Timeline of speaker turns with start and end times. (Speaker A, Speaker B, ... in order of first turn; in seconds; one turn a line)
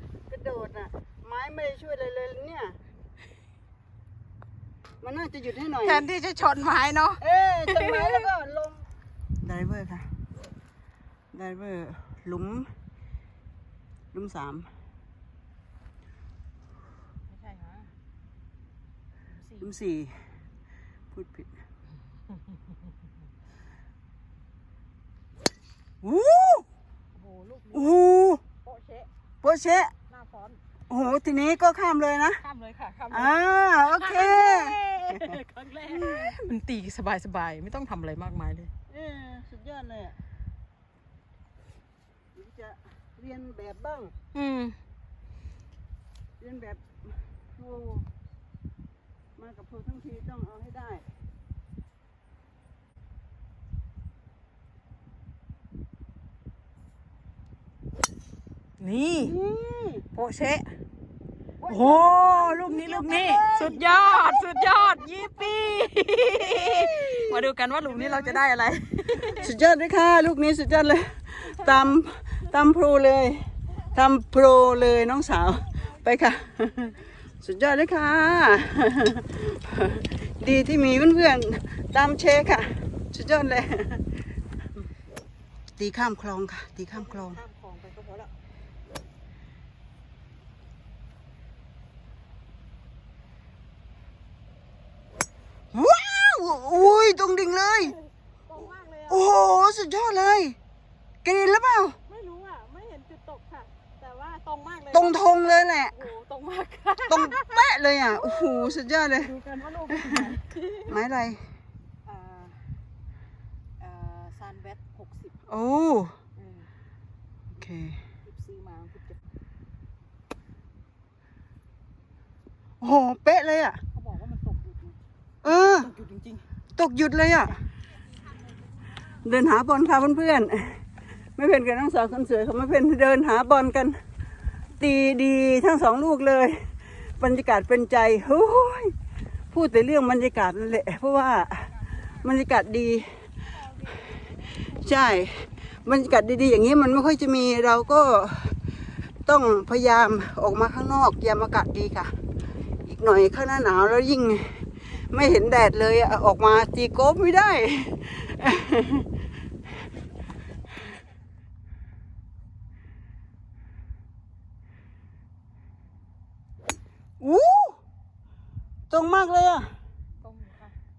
Speaker A: 0.3-2.8
Speaker A: 5.0-6.0
Speaker B: 5.8-8.3
Speaker A: 7.2-8.8
Speaker A: 9.4-10.1
Speaker A: 11.3-12.7
Speaker A: 14.1-14.7
Speaker B: 17.3-17.9
Speaker B: 19.3-19.7
Speaker A: 19.6-20.2
Speaker A: 21.1-21.5
Speaker A: 26.0-26.6
Speaker B: 27.1-28.0
Speaker A: 27.7-28.4
Speaker B: 28.6-29.1
Speaker A: 29.4-29.9
Speaker B: 30.1-30.6
Speaker A: 30.9-32.4
Speaker B: 32.4-38.7
Speaker A: 33.1-35.3
Speaker A: 35.9-36.3
Speaker A: 38.9-40.2
Speaker A: 42.4-44.1
Speaker B: 44.3-44.8
Speaker A: 46.4-48.1
Speaker A: 49.4-51.0
Speaker B: 58.8-59.4
Speaker A: 59.2-60.1
Speaker B: 60.1-60.7
Speaker A: 61.6-64.8
Speaker B: 61.7-69.5
Speaker A: 66.6-68.4
Speaker A: 69.4-73.4
Speaker A: 73.9-84.1
Speaker A: 85.8-87.4
Speaker B: 86.9-88.3
Speaker A: 95.7-98.0
Speaker B: 97.8-99.3
Speaker A: 99.1-100.6
Speaker A: 101.2-102.0
Speaker B: 102.1-105.2
Speaker A: 104.9-106.0
Speaker B: 105.9-111.0
Speaker A: 107.1-109.3
Speaker A: 109.9-110.2
Speaker A: 110.9-111.4
Speaker B: 112.0-112.6
Speaker B: 113.8-115.3
Speaker A: 115.5-116.2
Speaker B: 116.4-116.7
Speaker A: 117.5-118.0
Speaker B: 118.2-119.2
Speaker A: 122.8-123.8
Speaker B: 123.9-126.5
Speaker A: 125.4-125.9
Speaker A: 126.8-127.6
Speaker B: 127.5-127.7
Speaker B: 128.3-129.2
Speaker A: 129.1-130.8
Speaker A: 131.4-134.0
Speaker A: 134.8-138.9
Speaker A: 139.5-143.1
Speaker B: 143.5-144.8
Speaker A: 144.5-148.6
Speaker A: 149.3-152.1
Speaker A: 152.8-159.1
Speaker A: 167.2-167.8
Speaker A: 168.9-169.7
Speaker B: 170.2-170.8